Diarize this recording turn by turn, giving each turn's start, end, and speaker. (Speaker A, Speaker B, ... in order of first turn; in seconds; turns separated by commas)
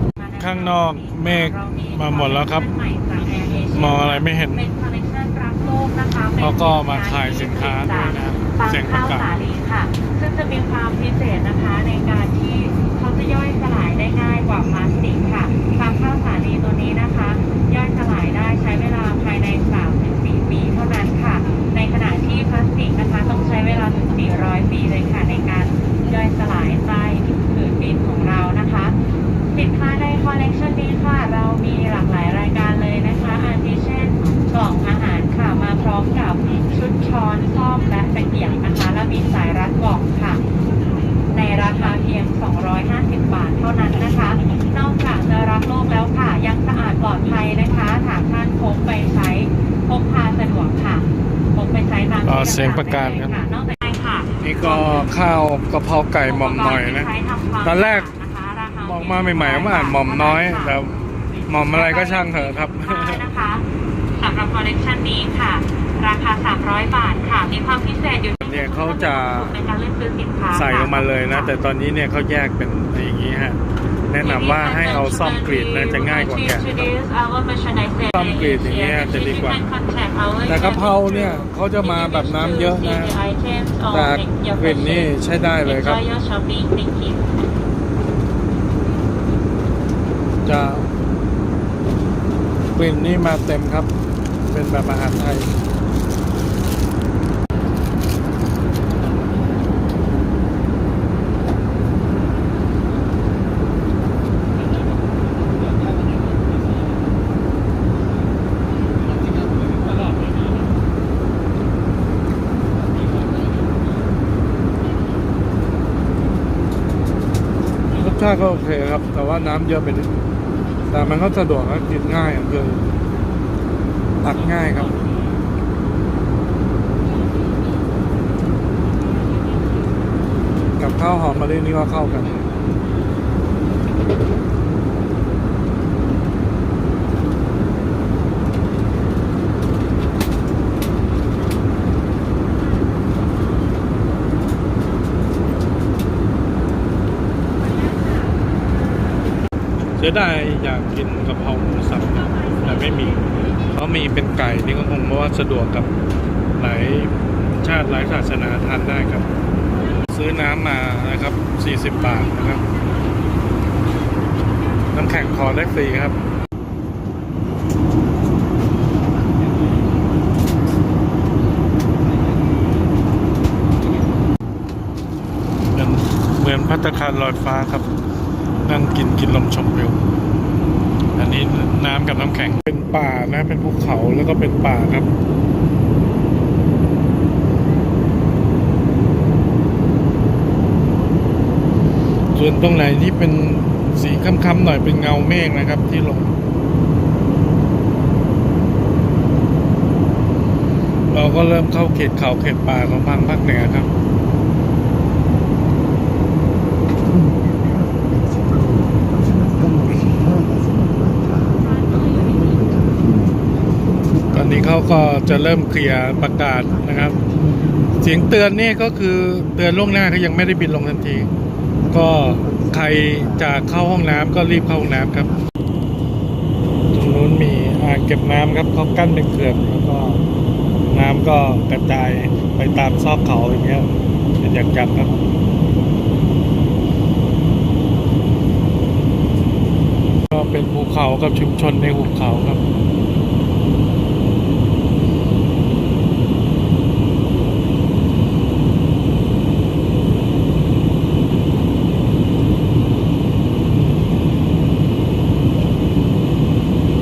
Speaker A: 0.2-28.9, Speaker B: 0.4-2.7, Speaker B: 3.7-4.7, Speaker B: 6.4-9.3, Speaker A: 29.5-40.4, Speaker A: 41.3-55.0, Speaker B: 52.2-53.4, Speaker B: 54.4-57.1, Speaker A: 56.2-60.8, Speaker B: 57.6-58.1, Speaker B: 58.8-60.9, Speaker B: 61.5-63.2, Speaker A: 61.5-63.6, Speaker A: 64.2-71.5, Speaker B: 68.4-69.5, Speaker B: 70.5-76.9, Speaker A: 74.2-87.2, Speaker B: 78.1-79.6, Speaker B: 80.4-83.1, Speaker B: 83.9-86.0, Speaker B: 90.4-90.9, Speaker B: 92.7-93.9, Speaker B: 94.5-95.5, Speaker B: 118.0-120.2, Speaker B: 120.9-122.8, Speaker B: 124.2-125.0, Speaker B: 130.8-132.5, Speaker B: 150.0-155.9, Speaker B: 156.6-159.3, Speaker B: 160.1-162.6, Speaker B: 164.9-166.2, Speaker B: 175.7-177.9, Speaker B: 178.6-180.1, Speaker B: 181.2-185.1, Speaker B: 192.3-196.3, Speaker B: 201.1-203.9, Speaker C: 207.0-213.5, Speaker C: 214.0-214.7, Speaker B: 214.3-217.2, Speaker C: 216.7-218.0, Speaker B: 218.0-221.3, Speaker B: 221.9-225.3, Speaker C: 222.2-223.7, Speaker C: 224.4-225.4, Speaker B: 226.9-230.2, Speaker B: 230.9-235.2, Speaker B: 240.3-242.6